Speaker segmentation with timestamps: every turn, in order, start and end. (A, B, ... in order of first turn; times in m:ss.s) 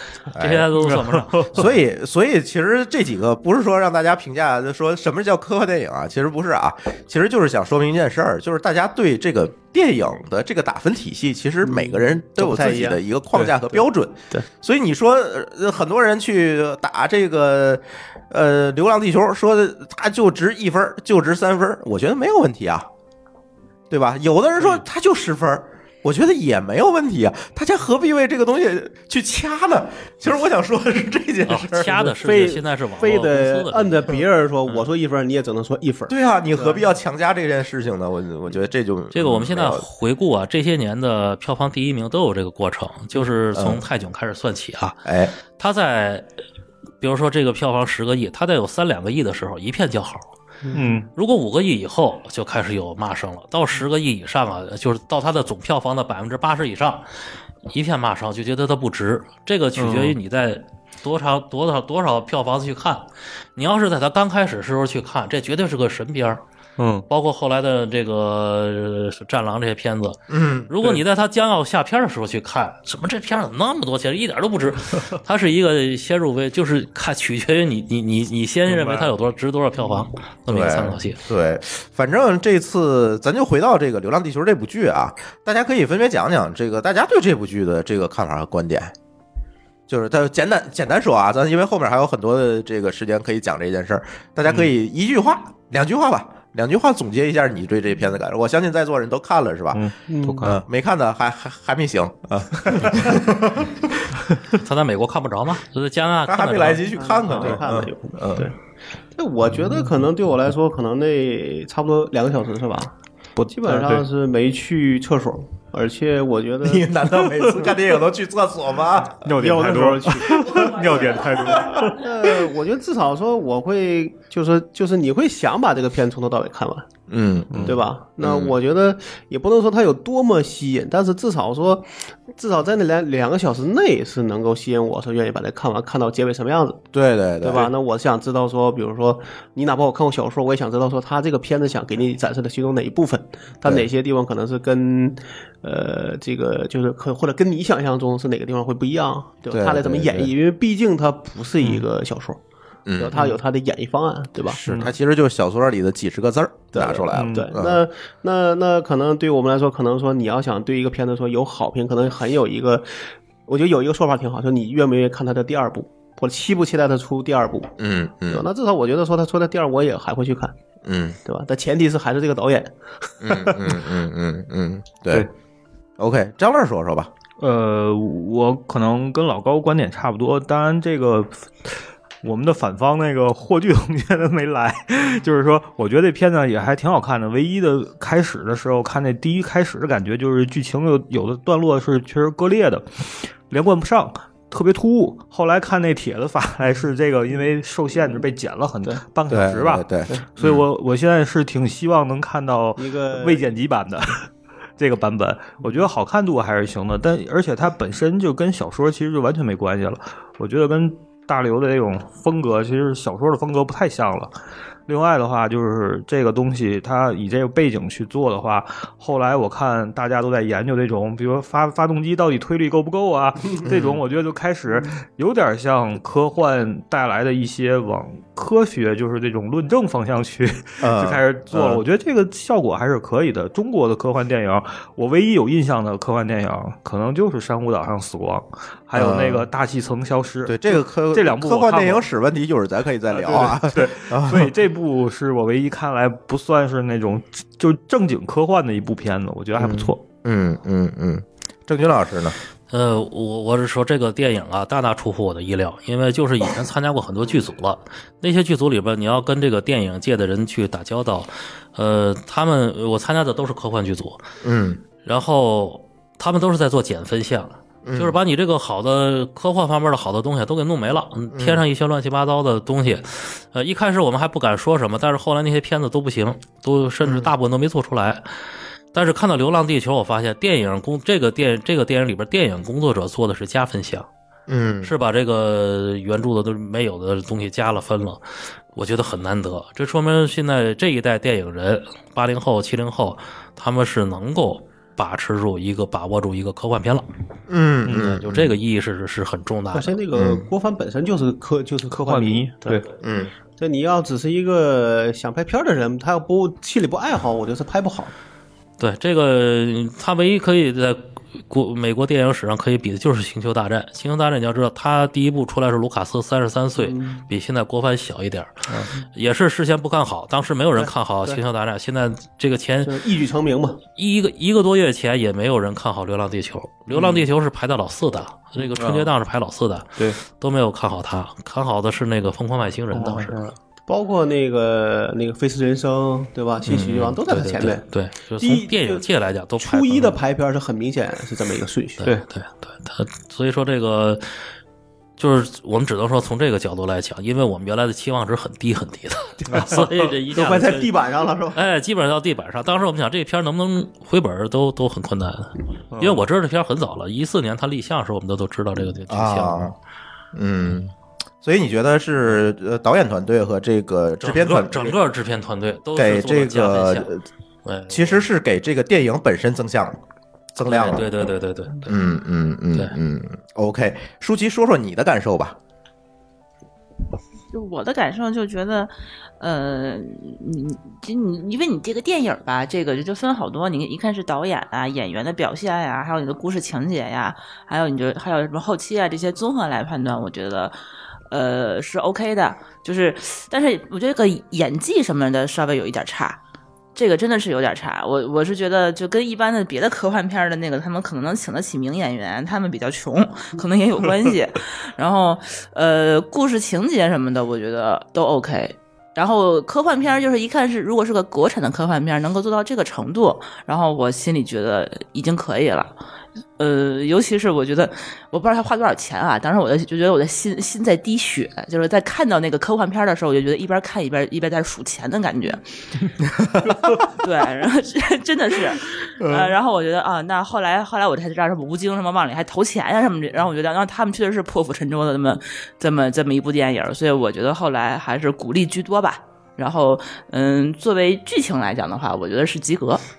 0:00.3-0:01.6 A
0:00.4-0:00.7 B
0:00.8-0:01.6 C
0:01.5-0:22.9 B
0:11.6-0:13.0 D
0:13.7-0:14.5 D
0:23.9-0:32.0 B
0:31.5-0:34.1 A
0:32.0-0:36.8 D
0:36.1-0:39.8 B
0:39.1-0:45.0 A
0:43.5-0:43.8 B
0:45.0-0:45.3 B
0:45.6-0:46.3 A
0:47.0-0:50.2 A
0:50.7-0:50.9 D
0:50.7-0:51.1 C
0:51.2-0:57.1 A
0:57.7-1:06.4 A
0:59.8-1:00.2 C
1:06.8-1:07.1 C
1:07.1-1:21.2 A
1:10.3-1:10.7 B
1:18.7-1:19.1 C
1:20.5-1:28.9 B
1:29.9-1:39.8 B
1:39.7-1:40.6 C
1:40.1-1:40.5 D
1:40.4-1:44.1 B
1:44.5-1:46.9 A
1:46.3-1:48.5 B
1:46.9-1:48.6 D
1:49.1-1:52.9 D
1:53.4-1:54.1 C
1:53.5-1:57.1 D
1:56.6-1:59.2 B
1:59.2-2:02.0 C
1:59.3-2:06.9 D
2:07.1-2:08.6 B
2:07.5-2:07.8 C
2:07.6-2:16.8 D
2:16.9-2:17.7 B
2:17.4-2:32.4 D
2:29.5-2:30.3 B
2:32.9-2:33.2 B
2:33.0-2:34.6 D
2:34.5-2:37.8 B
2:34.6-2:34.9 C
2:36.7-2:47.8 D
2:37.1-2:37.5 C
2:47.8-2:48.5 B
2:48.3-2:50.5 D
2:50.8-2:51.2 B
2:51.2-2:53.7 D
2:53.2-2:55.3 B
2:56.0-2:57.1 B
2:57.4-3:34.3 C
3:19.3-3:20.6 B
3:22.8-3:23.4 D
3:34.9-4:02.0 C
3:43.7-3:44.0 B
3:50.8-3:51.8 B
3:58.9-3:59.5 B
4:00.5-4:04.5 B
4:03.1-4:10.0 C
4:09.6-4:12.4 B
4:12.7-4:24.2 A
4:24.4-4:24.8 B
4:25.0-4:38.3 A
4:27.8-4:28.2 B
4:31.3-4:31.6 B
4:37.0-4:37.3 B
4:38.9-4:44.1 A
4:44.5-4:44.9 B
4:44.8-4:48.2 A
4:48.8-4:57.0 A
4:57.5-4:58.6 B
4:57.8-4:58.1 C
4:57.9-5:00.0 A
4:59.7-5:02.8 D
5:00.2-5:00.5 B
5:01.9-5:02.8 C
5:03.0-5:03.3 B
5:03.6-5:08.1 D
5:08.8-5:23.0 A
5:16.8-5:17.2 D
5:20.8-5:21.4 D
5:22.8-5:23.8 D
5:24.0-5:33.4 A
5:28.8-5:29.1 C
5:32.9-5:33.5 C
5:33.9-5:37.8 D
5:36.7-5:40.2 A
5:38.4-5:39.0 D
5:39.6-5:42.1 D
5:42.0-5:44.2 A
5:45.2-5:51.0 A
5:49.5-5:49.9 C
5:50.3-5:51.6 D
5:51.5-5:59.7 A
5:55.9-5:56.2 C
5:59.1-5:59.7 B
6:00.3-6:00.9 B
6:01.4-6:05.0 B
6:04.2-6:07.1 A
6:06.0-6:07.2 B
6:07.6-6:08.3 A
6:07.9-6:10.0 B
6:10.5-6:11.0 B
6:10.7-6:12.0 A
6:11.9-6:15.6 B
6:17.5-6:30.8 E
6:31.3-6:36.4 E
6:37.0-6:55.9 E
6:56.6-7:05.6 E
7:07.0-7:23.0 E